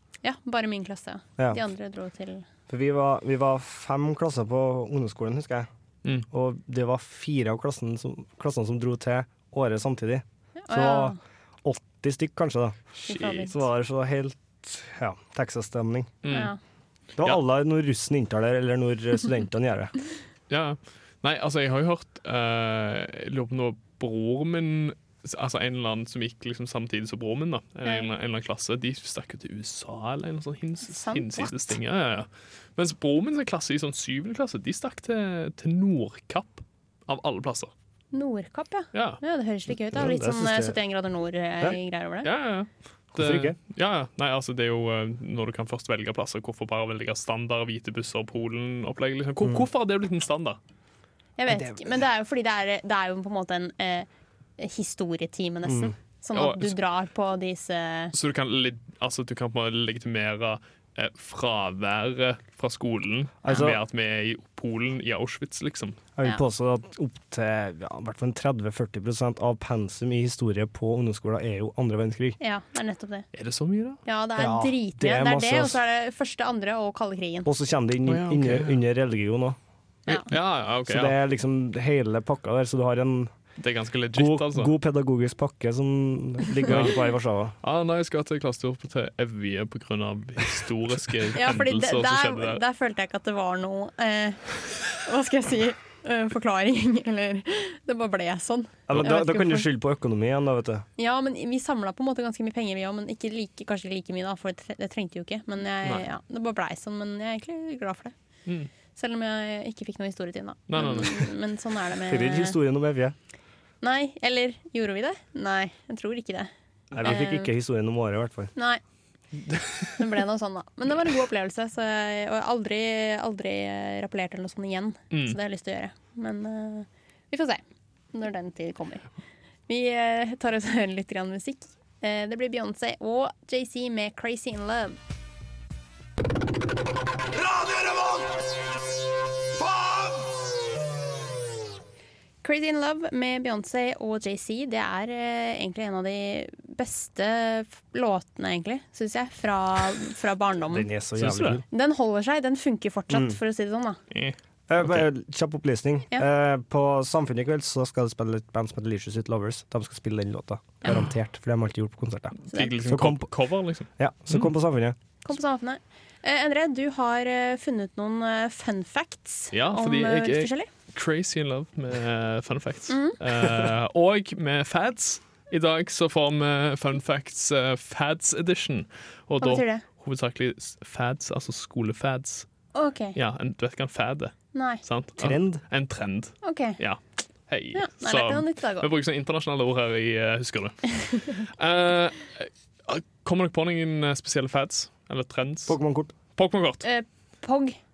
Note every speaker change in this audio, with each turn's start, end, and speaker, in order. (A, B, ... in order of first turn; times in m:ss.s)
0:00.2-0:02.4 A
0:02.7-0:05.7 B
0:06.3-0:12.8 B
0:10.6-0:11.2 A
0:13.0-0:13.6 A
0:13.1-0:13.5 C
0:13.3-0:16.1 B
0:16.2-0:16.5 C
0:16.3-0:16.6 A
0:17.2-0:19.9 B
0:20.5-0:37.7 C
0:30.8-0:31.6 A
0:38.1-0:42.3 A
0:38.9-0:39.2 C
0:39.9-0:40.8 B
0:42.2-0:50.6 C
0:43.1-0:43.6 B
0:51.4-0:54.1 A
0:51.5-0:52.0 B
0:54.6-0:58.1 A
0:55.6-0:55.9 B
0:56.3-0:56.8 C
0:58.1-1:06.0 C
1:03.4-1:03.8 B
1:06.2-1:12.4 B
1:12.4-1:13.3 A
1:13.3-1:14.0 C
1:14.0-1:17.5 A
1:14.4-1:15.8 B
1:17.4-1:19.6 B
1:18.0-1:18.8 C
1:20.1-1:21.2 C
1:20.9-1:23.3 B
1:23.6-1:24.7 C
1:24.1-1:27.5 B
1:26.7-1:26.9 C
1:27.6-1:32.6 C
1:31.3-1:39.7 A
1:38.9-1:40.8 B
1:41.0-1:48.1 A
1:49.0-1:52.6 A
1:50.7-1:51.3 C
1:52.0-1:53.1 B
1:53.8-1:56.5 A
1:56.9-1:58.5 B
1:57.0-1:57.5 A
1:58.6-1:58.8 A
1:59.5-1:59.9 C
2:00.0-2:07.6 A
2:05.1-2:05.4 C
2:08.1-2:09.0 A
2:09.7-2:15.0 A
2:22.4-2:30.9 A
2:30.7-2:31.6 B
2:31.2-2:31.6 C
2:31.7-2:34.0 A
2:33.1-2:33.4 B
2:34.1-2:35.0 C
2:34.7-2:43.3 B
2:42.4-2:44.5 C
2:44.0-2:45.0 B
2:45.2-2:50.7 A
2:49.5-3:02.5 C
2:52.9-2:53.2 A
2:59.4-2:59.8 A
3:02.7-3:03.2 A
3:03.1-3:15.8 C
3:04.5-3:04.8 A
3:05.2-3:05.6 B
3:06.4-3:06.8 A
3:07.7-3:08.9 A
3:15.7-3:16.1 B
3:16.3-3:16.8 C
3:16.8-3:17.8 A